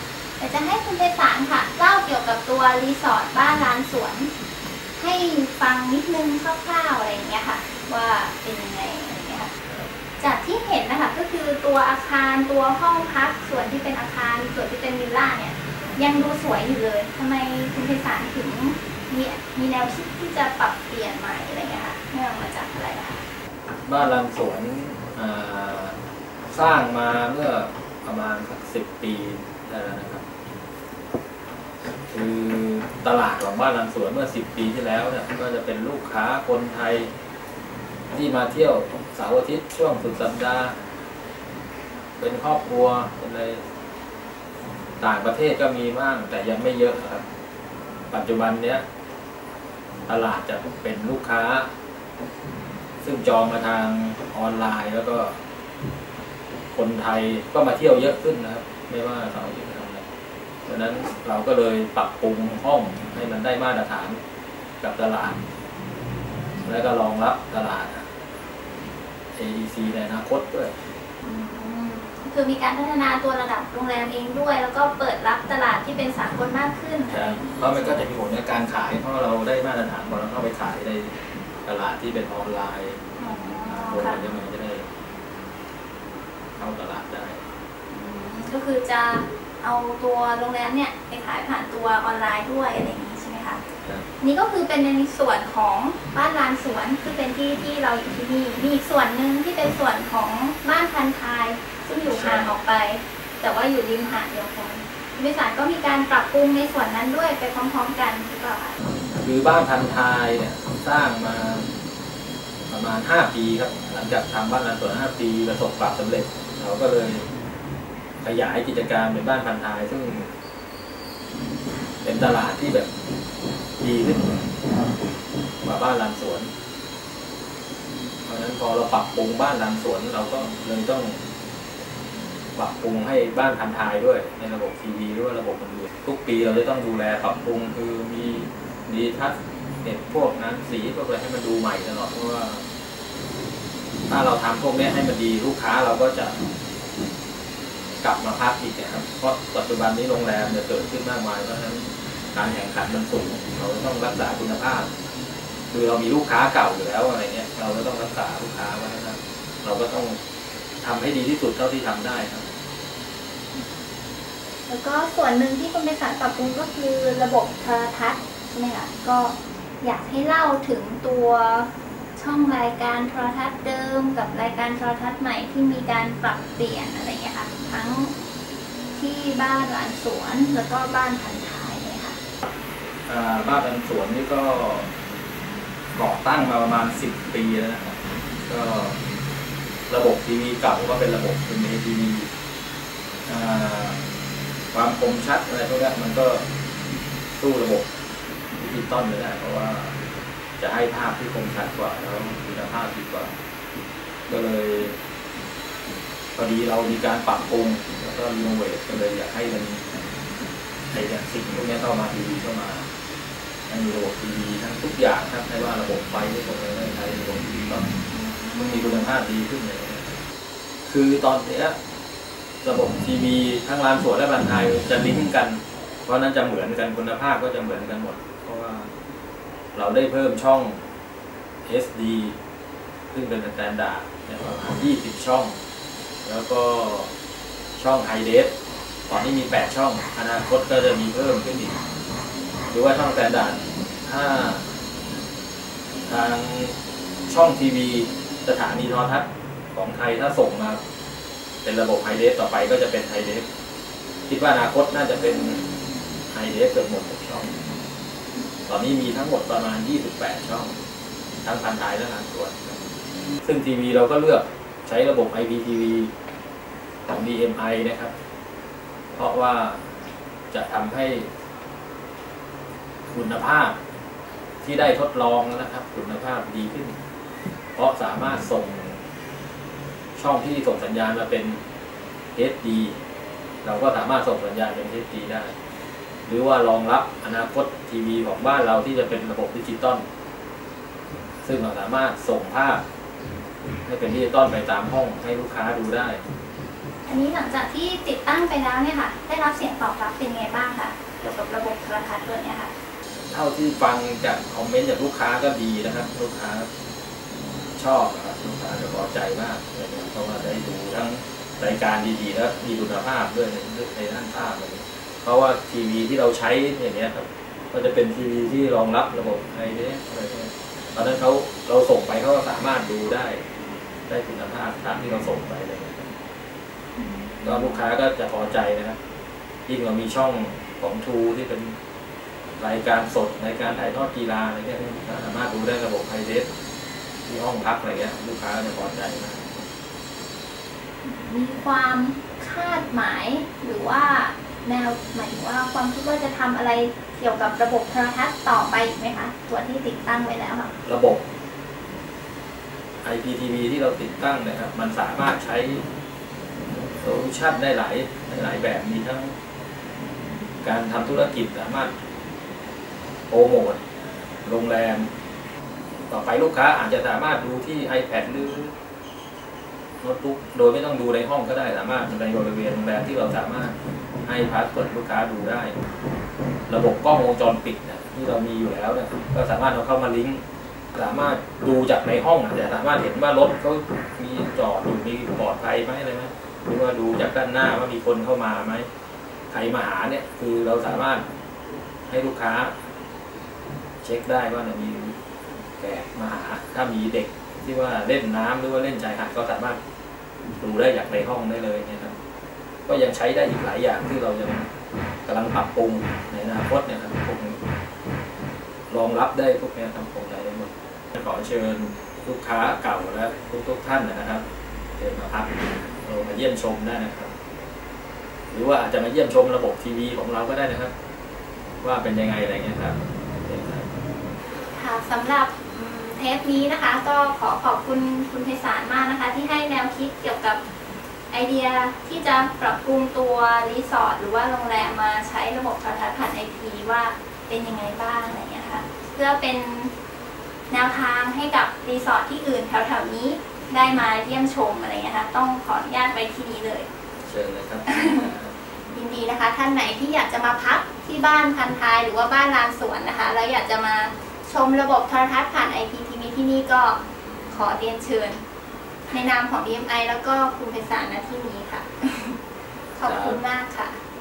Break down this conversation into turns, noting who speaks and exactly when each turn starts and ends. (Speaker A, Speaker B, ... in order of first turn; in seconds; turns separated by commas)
Speaker A: 0.4-4.3, Speaker A: 5.0-9.5, Speaker A: 10.2-23.2, Speaker B: 23.9-26.0, Speaker B: 26.5-30.2, Speaker B: 32.1-37.1, Speaker B: 38.1-40.8, Speaker B: 42.2-43.6, Speaker B: 45.0-47.2, Speaker B: 48.1-48.8, Speaker B: 50.1-51.7, Speaker B: 53.0-55.4, Speaker B: 56.7-60.0, Speaker B: 60.6-64.2, Speaker B: 64.8-65.4, Speaker B: 66.6-68.1, Speaker B: 69.4-70.7, Speaker A: 71.2-77.6, Speaker B: 77.1-83.0, Speaker A: 83.2-84.2, Speaker B: 83.7-84.9, Speaker B: 86.6-87.4, Speaker A: 87.9-93.6, Speaker A: 94.2-108.8, Speaker B: 102.1-102.5, Speaker B: 109.2-111.7, Speaker B: 112.7-117.3, Speaker B: 118.2-120.3, Speaker B: 122.0-122.9, Speaker B: 123.8-124.4, Speaker B: 125.6-126.5, Speaker B: 128.2-131.2, Speaker B: 132.6-142.7, Speaker B: 144.1-146.4, Speaker B: 148.0-154.9, Speaker B: 155.7-160.2, Speaker B: 160.8-162.5, Speaker A: 164.7-178.1, Speaker A: 178.9-182.2, Speaker B: 183.1-184.9, Speaker B: 185.9-189.0, Speaker B: 189.9-192.3, Speaker B: 193.3-194.0, Speaker B: 194.7-196.5, Speaker B: 197.3-197.9, Speaker B: 198.6-200.0, Speaker B: 200.6-203.3, Speaker B: 204.3-205.0, Speaker B: 206.3-209.8, Speaker B: 210.9-212.9, Speaker B: 213.7-217.9, Speaker A: 218.1-219.1, Speaker B: 218.6-220.2, Speaker B: 220.9-221.8, Speaker B: 222.6-228.9, Speaker B: 229.7-230.8, Speaker B: 231.7-232.4, Speaker B: 233.1-235.6, Speaker B: 236.2-237.1, Speaker B: 237.8-238.5, Speaker B: 239.1-241.8, Speaker B: 242.7-244.7, Speaker B: 246.1-246.8, Speaker B: 247.3-250.8, Speaker B: 251.6-253.5, Speaker B: 254.3-255.6, Speaker B: 256.3-257.6, Speaker B: 258.7-260.7, Speaker B: 261.4-262.7, Speaker B: 263.4-266.1, Speaker B: 267.1-268.1, Speaker B: 269.1-269.8, Speaker B: 270.5-271.3, Speaker B: 273.1-273.8, Speaker B: 274.6-277.0, Speaker B: 277.8-279.0, Speaker B: 280.2-281.6, Speaker B: 282.4-283.0, Speaker B: 283.6-285.6, Speaker B: 286.3-290.0, Speaker B: 291.4-292.8, Speaker B: 293.9-296.2, Speaker A: 297.1-302.7, Speaker B: 303.3-306.7, Speaker B: 307.8-323.4, Speaker B: 324.1-326.1, Speaker A: 327.0-327.8, Speaker B: 327.4-329.0, Speaker B: 329.7-331.8, Speaker B: 332.6-336.5, Speaker B: 337.2-339.5, Speaker A: 341.0-350.7, Speaker B: 350.9-351.2, Speaker B: 353.0-355.9, Speaker B: 357.0-359.4, Speaker B: 360.6-361.9, Speaker B: 363.3-363.8, Speaker B: 364.4-365.1, Speaker B: 366.1-368.7, Speaker B: 370.0-375.7, Speaker B: 376.7-380.4, Speaker B: 380.9-388.9, Speaker B: 389.5-391.3, Speaker B: 392.1-392.7, Speaker B: 394.0-395.2, Speaker B: 395.8-399.8, Speaker B: 400.6-402.1, Speaker B: 402.9-404.7, Speaker B: 405.3-407.6, Speaker B: 408.9-414.4, Speaker B: 415.0-417.3, Speaker B: 418.5-420.9, Speaker B: 421.8-423.9, Speaker A: 424.7-430.6, Speaker A: 431.3-439.9, Speaker A: 440.7-446.9, Speaker B: 447.2-448.6, Speaker A: 447.9-448.3, Speaker A: 448.9-458.4, Speaker A: 459.1-462.4, Speaker A: 462.9-464.0, Speaker B: 463.1-463.4